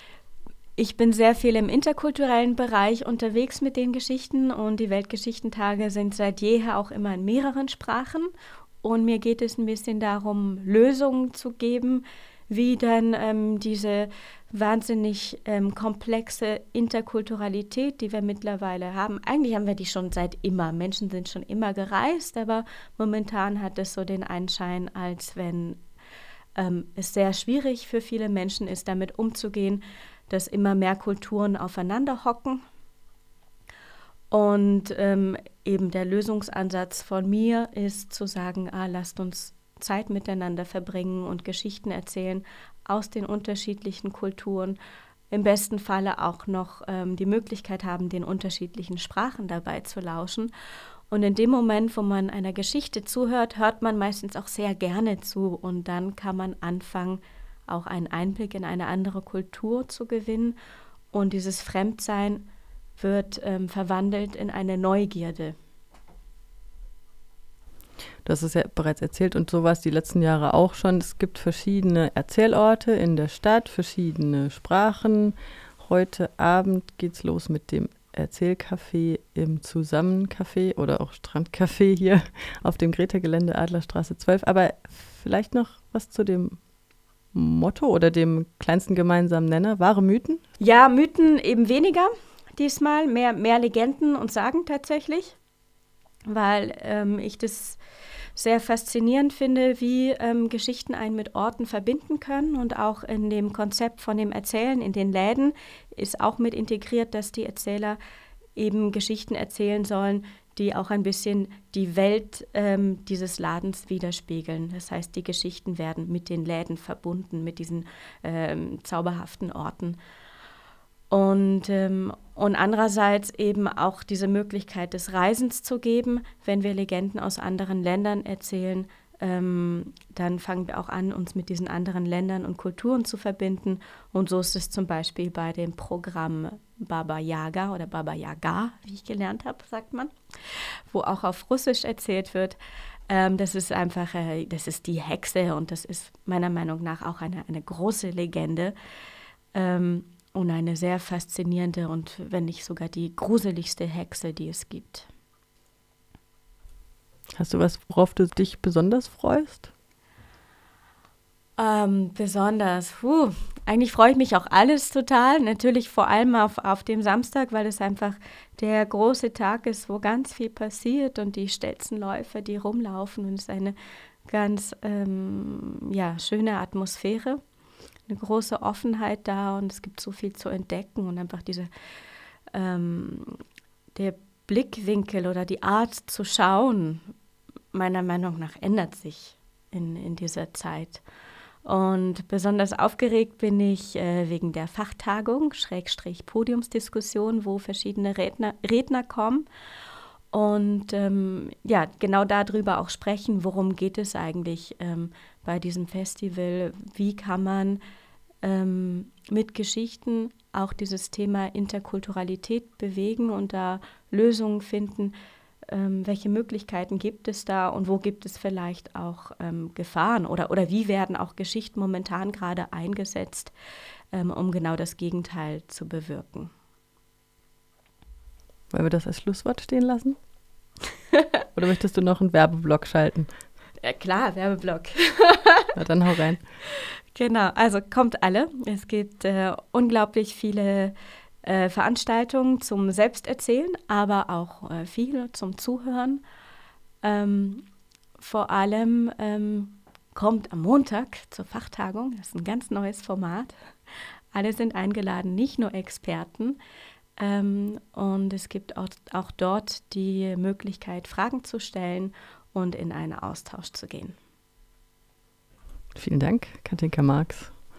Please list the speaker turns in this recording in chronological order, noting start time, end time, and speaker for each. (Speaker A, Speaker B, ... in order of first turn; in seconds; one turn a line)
Speaker A: 0.8-8.3
Speaker A: 8.8-25.8
Speaker A: 26.6-32.6
Speaker A: 34.3-44.8
Speaker A: 45.3-50.5
Speaker A: 51.1-60.5
Speaker A: 61.1-62.5
Speaker A: 63.0-65.5
Speaker B: 68.2-86.6
Speaker B: 87.3-90.4
Speaker A: 90.6-95.3
Speaker A: 96.3-97.8
Speaker A: 98.3-108.0
Speaker A: 108.5-120.0
Speaker A: 121.1-140.1
Speaker A: 140.9-142.6
Speaker A: 143.1-148.7
Speaker A: 149.5-155.1
Speaker B: 157.3-159.7
Speaker A: 161.6-173.8
Speaker A: 174.3-177.4
Speaker A: 178.1-181.7
Speaker A: 182.5-183.4
Speaker A: 183.9-187.1
Speaker A: 187.7-191.0
Speaker A: 191.6-199.5
Speaker A: 200.3-207.8
Speaker A: 208.4-215.1
Speaker A: 215.7-223.5
Speaker A: 224.1-226.5
Speaker B: 228.7-230.2
Speaker B: 231.5-233.3
Speaker A: 233.8-235.8
Speaker B: 235.7-236.4
Speaker A: 237.1-246.2
Speaker A: 247.0-247.6
Speaker A: 248.2-253.6
Speaker A: 254.3-256.6
Speaker A: 257.2-264.1
Speaker B: 265.9-267.6